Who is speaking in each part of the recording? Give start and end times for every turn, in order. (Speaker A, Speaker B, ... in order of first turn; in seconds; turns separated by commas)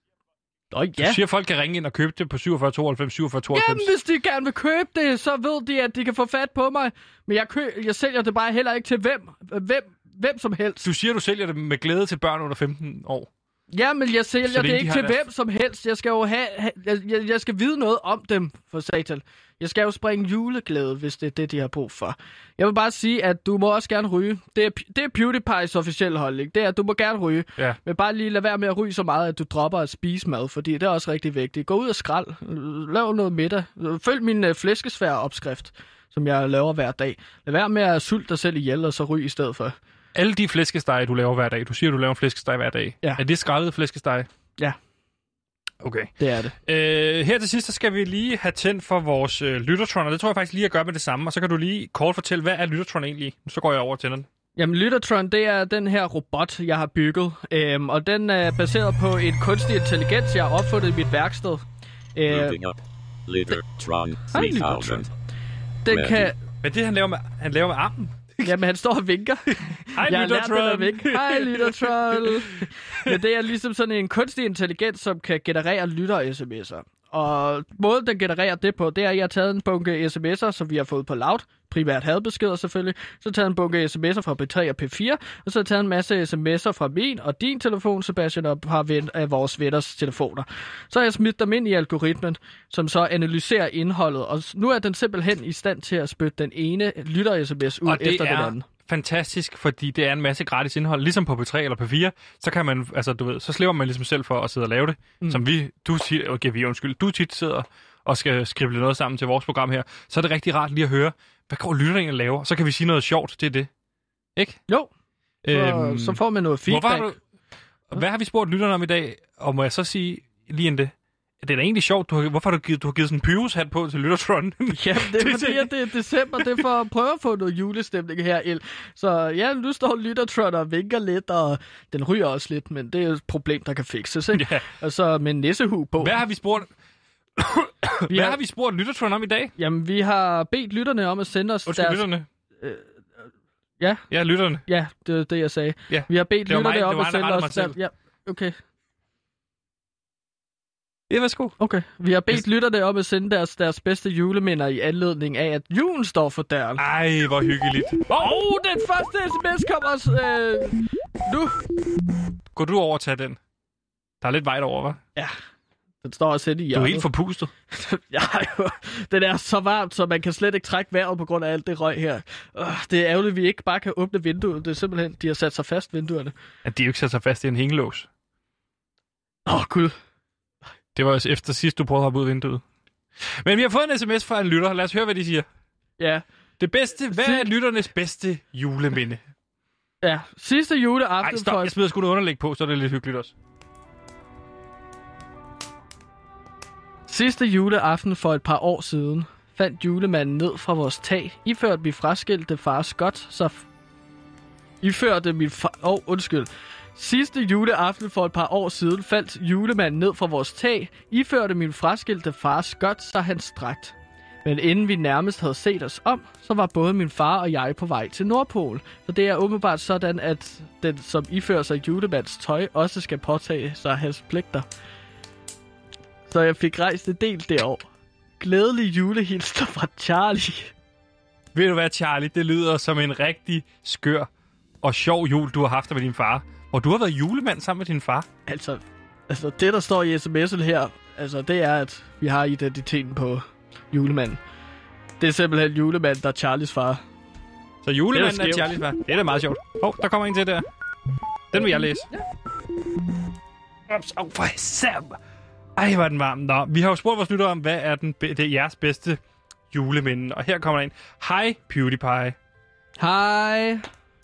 Speaker A: 0.7-1.2, Speaker B: 1.0-3.9, Speaker A: 3.5-10.9, Speaker B: 10.8-13.3, Speaker A: 13.7-39.8, Speaker B: 14.4-15.2, Speaker B: 40.1-44.3, Speaker B: 45.8-46.1, Speaker A: 46.2-46.5, Speaker B: 46.6-54.3, Speaker A: 54.6-62.6, Speaker C: 62.3-62.8, Speaker C: 63.3-65.1, Speaker A: 64.3-65.1, Speaker A: 65.8-66.4, Speaker C: 65.9-66.3, Speaker B: 66.6-68.5, Speaker A: 68.4-98.7, Speaker B: 69.9-73.1, Speaker B: 97.9-113.7, Speaker B: 114.4-114.6, Speaker B: 115.4-117.2, Speaker A: 115.5-117.1, Speaker B: 117.9-125.7, Speaker A: 124.7-136.2, Speaker B: 126.4-126.6, Speaker B: 134.3-134.7, Speaker B: 136.0-136.7, Speaker B: 137.4-139.6, Speaker A: 138.1-138.4, Speaker A: 139.6-142.1, Speaker B: 141.7-142.3, Speaker A: 142.6-142.9, Speaker A: 143.8-144.1, Speaker B: 144.1-144.6, Speaker A: 144.7-148.6, Speaker B: 145.9-147.8, Speaker B: 151.1-151.6, Speaker A: 151.6-156.8, Speaker B: 156.8-158.4, Speaker A: 158.2-161.6, Speaker B: 162.5-163.4, Speaker B: 164.2-165.0, Speaker A: 166.0-167.1, Speaker B: 166.7-167.5, Speaker A: 167.7-176.3, Speaker B: 176.7-178.1, Speaker A: 179.5-179.9, Speaker B: 180.9-182.6, Speaker B: 183.3-185.5, Speaker A: 186.0-186.2, Speaker B: 186.6-189.2, Speaker A: 187.1-187.5, Speaker A: 190.0-191.7, Speaker B: 191.2-193.3, Speaker A: 197.1-203.7, Speaker A: 204.8-224.7, Speaker A: 226.3-227.9, Speaker A: 228.4-230.7, Speaker B: 231.5-234.3, Speaker B: 234.8-238.3, Speaker A: 238.5-244.4, Speaker A: 245.2-247.0, Speaker B: 247.8-250.7, Speaker A: 248.1-248.8, Speaker B: 251.5-252.1, Speaker A: 251.6-252.2, Speaker B: 253.9-255.2, Speaker B: 255.8-259.2, Speaker B: 259.7-262.4, Speaker A: 263.0-263.9